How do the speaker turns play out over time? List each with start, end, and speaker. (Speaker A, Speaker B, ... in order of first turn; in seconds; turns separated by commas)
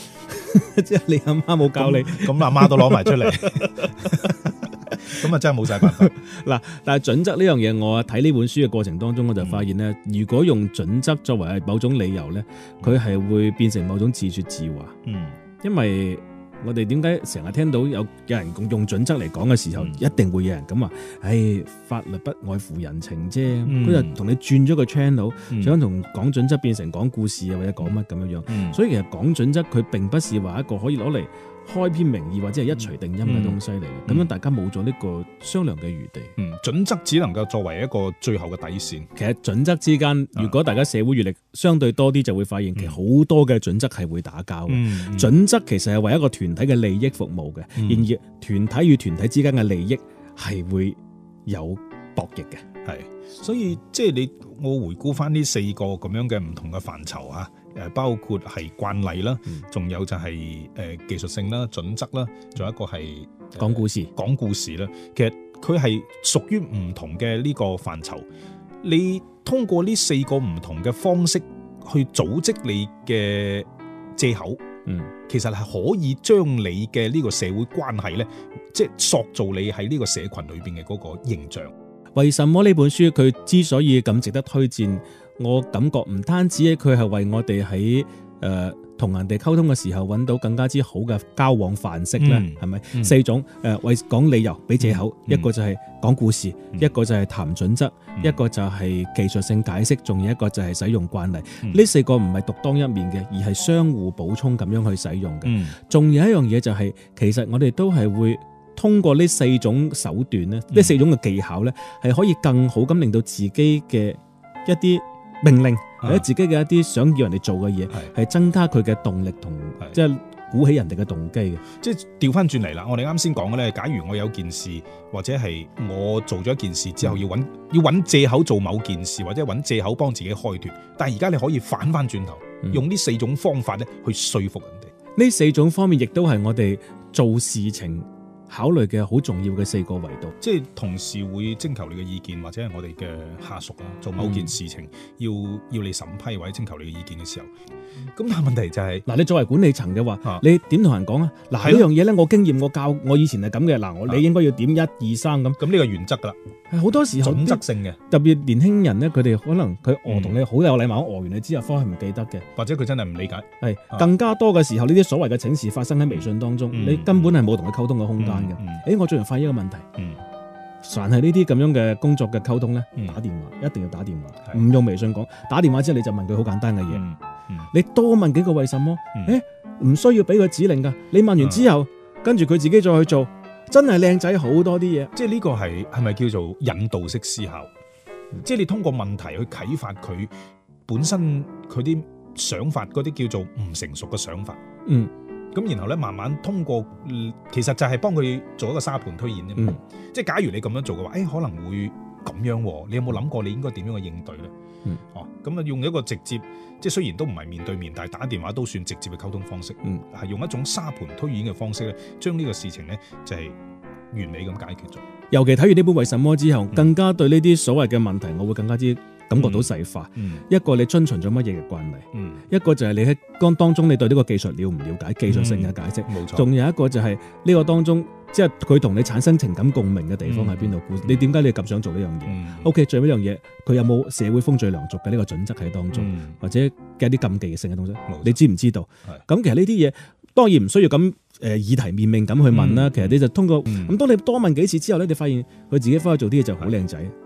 Speaker A: 0.3-5.3, Speaker B: 1.8-4.5, Speaker B: 5.0-6.1, Speaker A: 5.8-15.0, Speaker B: 9.4-9.7, Speaker B: 15.0-15.4, Speaker A: 15.6-36.3, Speaker B: 23.6-24.2, Speaker B: 25.5-25.8, Speaker B: 28.5-28.8, Speaker B: 33.2-34.3, Speaker B: 36.4-39.1, Speaker A: 39.2-52.6, Speaker B: 44.7-45.4, Speaker B: 47.8-48.1, Speaker B: 52.8-68.3, Speaker A: 63.6-64.1, Speaker B: 68.8-74.6, Speaker A: 74.9-75.1, Speaker B: 75.3-81.7, Speaker A: 82.2-121.6, Speaker B: 92.2-93.2, Speaker B: 94.8-95.5, Speaker B: 105.4-105.8, Speaker B: 110.7-111.0, Speaker B: 116.0-116.3, Speaker B: 121.8-134.9, Speaker A: 135.2-140.3, Speaker B: 140.4-147.5, Speaker A: 144.2-144.5, Speaker B: 148.2-149.1, Speaker A: 149.1-155.6, Speaker B: 151.6-151.9, Speaker B: 155.6-156.4, Speaker A: 156.7-162.5, Speaker B: 157.1-158.0, Speaker B: 160.1-160.4, Speaker B: 162.6-164.1, Speaker A: 163.6-169.9, Speaker B: 166.1-167.4, Speaker B: 168.2-168.8, Speaker A: 170.8-177.1, Speaker B: 176.9-177.7, Speaker A: 177.7-185.1, Speaker B: 181.4-181.7, Speaker B: 185.1-187.7, Speaker B: 188.4-190.3, Speaker B: 190.9-194.6, Speaker A: 194.9-195.1, Speaker B: 195.5-204.5, Speaker B: 205.1-213.6, Speaker B: 214.1-215.0, Speaker A: 215.3-247.1, Speaker B: 219.4-220.4, Speaker B: 222.1-222.4, Speaker B: 225.3-226.5, Speaker B: 230.2-231.3, Speaker B: 232.2-232.7, Speaker B: 235.9-236.4, Speaker B: 238.1-238.4, Speaker B: 242.5-244.0